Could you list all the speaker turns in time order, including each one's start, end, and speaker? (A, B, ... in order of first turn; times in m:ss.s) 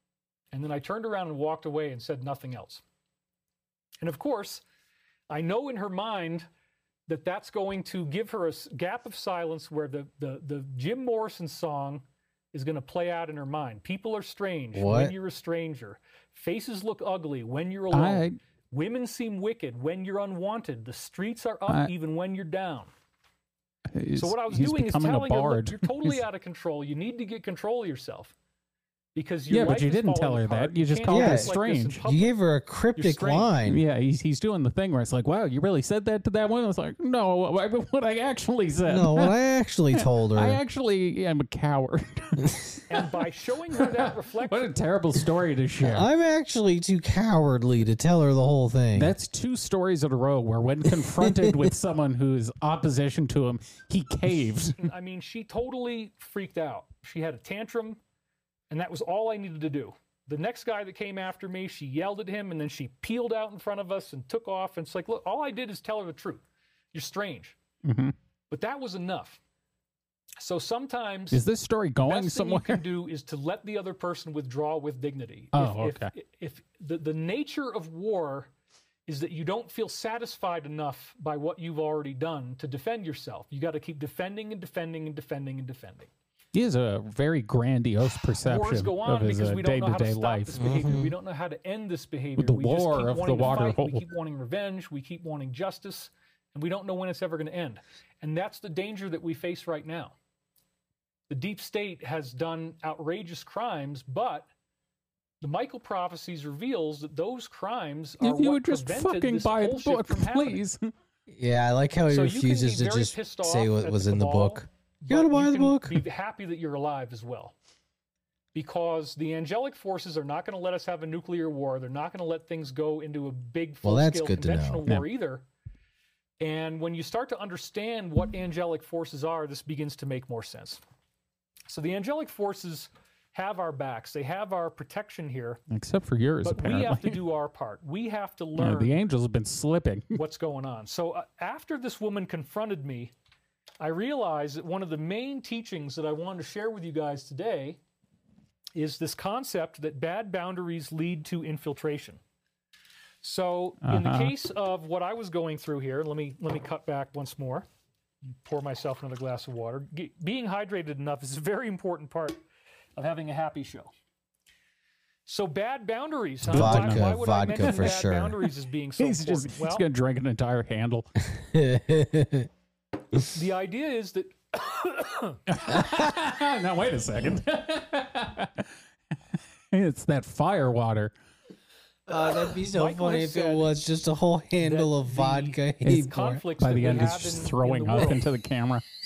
0:00.5-0:02.8 A
0:04.0-0:04.6 A
0:05.3-0:06.5 A
0:07.1-0:22.9 A
0:14.7-0:15.1 B
0:17.9-0:18.4 C
0:23.9-0:26.2 C
0:24.1-0:28.3 A
0:29.1-0:32.4 A
0:29.5-0:32.0 C
0:31.1-0:33.8 B
0:33.0-0:33.5 A
0:33.6-0:39.3 C
0:38.9-0:40.6 B
0:39.9-0:42.6 C
0:42.9-0:44.7 A
0:43.8-0:46.1 C
0:45.8-0:49.1 B
0:48.9-0:54.8 C
0:51.2-0:51.7 B
0:54.8-0:58.0 A
0:58.7-1:07.6 A
1:07.8-1:08.1 C
1:08.5-1:09.4 A
1:10.4-1:11.4 A
1:11.3-1:12.8 C
1:12.0-1:18.5 A
1:15.5-1:16.1 C
1:19.1-1:26.1 A
1:26.5-1:30.9 C
1:28.4-1:40.1 A
1:30.6-1:31.1 B
1:32.4-1:34.0 C
1:41.3-1:44.5 A
1:45.4-1:50.6 A
1:48.2-1:50.9 C
1:51.3-1:56.0 B
1:52.1-1:57.5 A
1:58.5-2:05.4 A
2:03.8-2:04.8 B
2:06.4-2:10.8 A
2:11.7-2:15.6 A
2:15.7-2:17.2 C
2:16.4-2:19.0 A
2:18.6-2:20.2 C
2:20.1-2:23.1 A
2:23.8-2:27.8 A
2:28.7-2:32.2 A
2:33.2-2:37.6 A
2:33.8-2:34.3 C
2:38.2-2:42.4 A
2:43.0-2:43.9 A
2:45.2-2:49.8 A
2:46.4-2:47.8 C
2:46.4-2:48.4 B
2:49.0-2:51.1 C
2:51.2-2:52.5 B
2:53.3-2:55.4 A
2:55.5-2:58.7 C
2:59.7-3:01.1 C
3:02.1-3:06.4 B
3:02.6-3:03.8 A
3:04.6-3:08.2 A
3:05.8-3:08.8 C